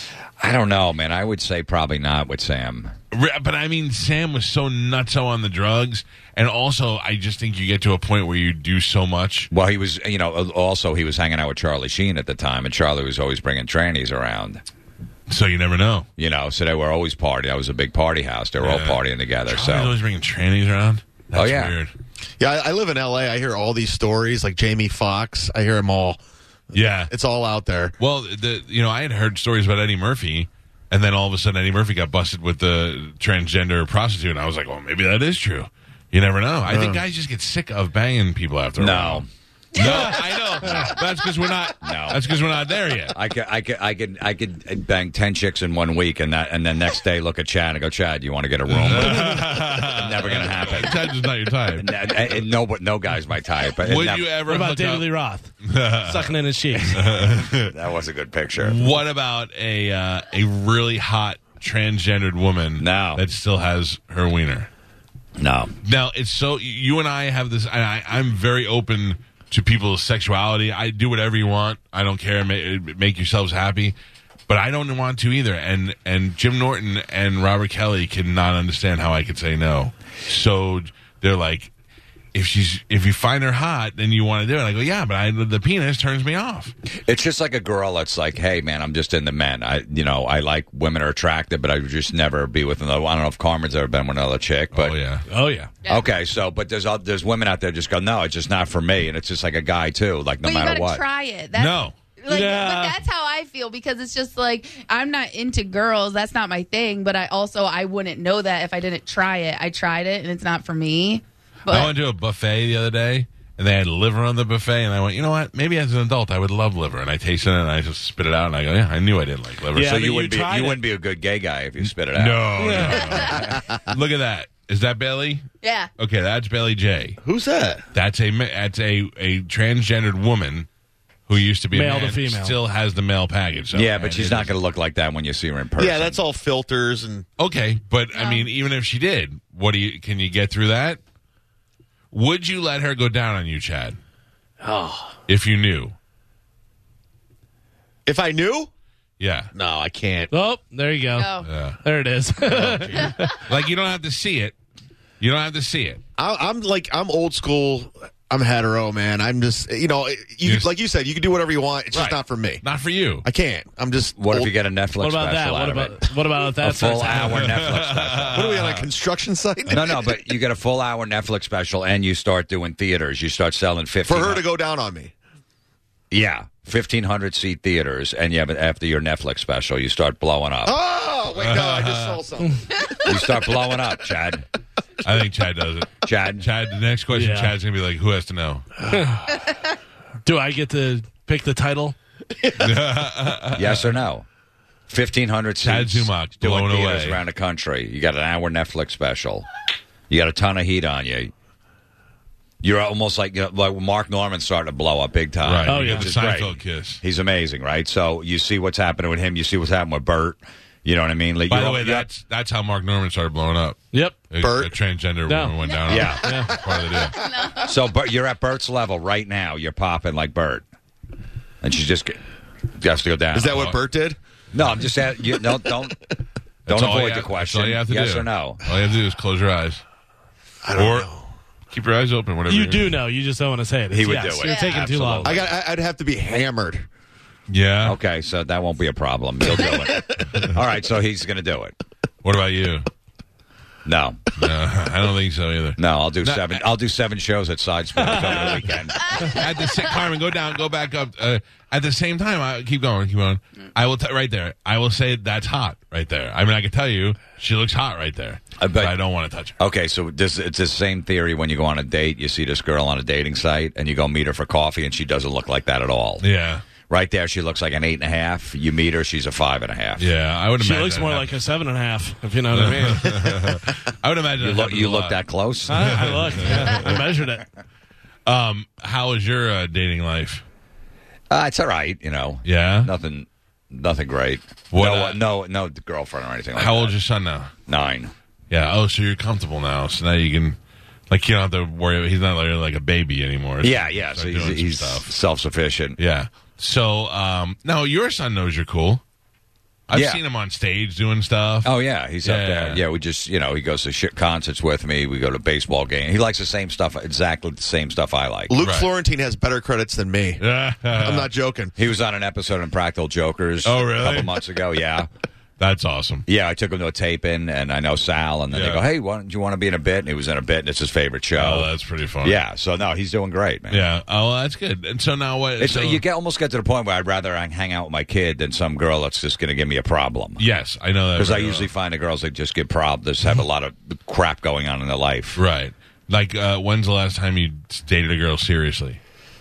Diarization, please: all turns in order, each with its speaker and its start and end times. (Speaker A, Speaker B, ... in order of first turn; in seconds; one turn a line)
Speaker A: 0.4-2.9
Speaker B: 3.1-9.5
Speaker A: 9.5-14.6
Speaker B: 15.3-16.1
Speaker A: 16.2-19.9
Speaker B: 18.6-21.9
Speaker A: 21.3-21.7
Speaker C: 22.4-26.2
Speaker B: 26.7-27.1
Speaker C: 26.8-27.9
Speaker B: 28.0-43.1
Speaker C: 36.7-37.0
Speaker A: 38.8-39.3
Speaker A: 39.8-40.9
Speaker A: 41.8-42.2
Speaker A: 43.1-51.0
Speaker B: 48.7-52.4
Speaker A: 51.8-54.4
Speaker B: 53.8-55.1
Speaker D: 54.5-55.5
Speaker B: 55.6-56.3
Speaker D: 56.0-57.0
Speaker A: 56.8-58.8
Speaker B: 56.9-57.7
Speaker B: 58.6-64.7
Speaker A: 62.8-63.2
Speaker A: 65.4-65.7
Speaker B: 65.8-73.9
Speaker B: 74.5-81.7
Speaker B: 82.3-86.7
Speaker A: 87.0-95.0
Speaker B: 94.7-95.5
Speaker D: 95.3-95.7
Speaker A: 95.9-101.0
Speaker E: 100.4-111.9
Speaker B: 101.5-101.9
Speaker D: 102.3-103.0
Speaker B: 111.7-120.0
Speaker D: 119.8-120.8
Speaker A: 119.8-123.6
Speaker B: 122.1-125.5
Speaker D: 122.6-123.0
Speaker E: 122.9-123.6
Speaker E: 125.6-125.9
Speaker B: 126.0-127.2
Speaker C: 127.2-127.8
Speaker B: 127.9-130.7
Speaker B: 131.3-134.6
Speaker D: 131.7-132.6
Speaker A: 133.7-136.2
Speaker C: 135.8-137.2
Speaker B: 137.4-141.0
Speaker E: 138.1-138.5
Speaker B: 142.1-144.0
Speaker D: 144.6-145.1
Speaker B: 145.3-145.9
Speaker C: 148.1-148.7
Speaker B: 149.2-149.5
Speaker C: 149.5-150.3
Speaker D: 150.3-153.4
Speaker E: 151.2-151.5
Speaker B: 151.4-151.8
Speaker C: 152.6-153.1
Speaker B: 153.4-154.5
Speaker B: 155.2-156.0
Speaker C: 156.2-162.6
Speaker B: 160.4-160.7
Speaker B: 161.9-163.2
Speaker C: 163.2-164.5
Speaker A: 164.2-168.4
Speaker D: 165.0-167.5
Speaker B: 167.0-168.9
Speaker C: 168.3-170.2
Speaker A: 169.7-174.4
Speaker C: 174.0-175.1
Speaker A: 176.1-180.8
Speaker C: 180.6-182.9
Speaker B: 181.3-182.2
Speaker A: 183.0-184.4
Speaker B: 185.0-188.9
Speaker A: 186.0-186.4
Speaker D: 187.1-187.5
Speaker D: 188.9-189.3
Speaker D: 190.2-191.9
Speaker B: 192.5-194.0
Speaker A: 193.5-194.2
Speaker A: 194.9-199.5
Speaker B: 195.6-197.2
Speaker A: 200.1-201.3
Speaker A: 202.6-212.1
Speaker B: 205.4-207.0
Speaker D: 205.7-206.1
Speaker B: 211.5-217.2
Speaker D: 213.9-214.3
Speaker C: 214.4-214.8
Speaker D: 215.3-216.6
Speaker E: 215.7-216.0
Speaker A: 215.9-216.3
Speaker E: 217.1-217.7
Speaker A: 217.6-220.6
Speaker A: 221.6-222.2
Speaker A: 222.7-223.7
Speaker C: 223.3-224.2
Speaker A: 224.5-226.0
Speaker C: 225.3-225.9
Speaker B: 226.7-229.8
Speaker A: 226.7-228.6
Speaker C: 230.6-231.2
Speaker B: 230.7-231.1
Speaker B: 231.7-233.0
Speaker D: 232.5-235.4
Speaker A: 233.9-235.5
Speaker E: 234.4-234.9
Speaker C: 235.2-236.9
Speaker B: 237.5-238.0
Speaker A: 237.8-241.8
Speaker B: 242.2-242.9
Speaker A: 243.8-244.2
Speaker B: 244.4-246.7
Speaker A: 245.8-249.4
Speaker B: 248.1-248.5
Speaker E: 249.1-249.4
Speaker B: 249.1-259.6
Speaker A: 258.6-258.9
Speaker A: 259.6-266.2
Speaker B: 266.2-266.6
Speaker A: 266.9-270.1
Speaker B: 270.0-271.3
Speaker D: 270.6-273.5
Speaker B: 272.5-277.0
Speaker A: 274.4-276.6
Speaker D: 275.7-277.4
Speaker B: 278.2-280.4
Speaker A: 281.3-286.9
Speaker B: 282.4-282.9
Speaker B: 284.7-285.2
Speaker B: 286.5-287.5
Speaker A: 287.7-288.1
Speaker B: 288.5-290.6
Speaker B: 291.1-295.1
Speaker A: 293.6-296.0
Speaker B: 296.0-299.0
Speaker B: 299.9-301.7
Speaker A: 299.9-300.2
Speaker A: 301.6-308.6
Speaker B: 302.2-302.8
Speaker C: 308.5-311.7
Speaker B: 308.6-308.9
Speaker B: 310.4-311.3
Speaker A: 311.8-315.1
Speaker B: 313.6-314.4
Speaker B: 315.6-316.2
Speaker A: 316.3-321.7
Speaker B: 318.5-318.8
Speaker B: 321.4-322.4
Speaker A: 322.2-323.8
Speaker B: 323.7-326.0
Speaker A: 325.6-330.4
Speaker B: 330.4-331.7
Speaker A: 331.1-335.4
Speaker B: 335.4-339.0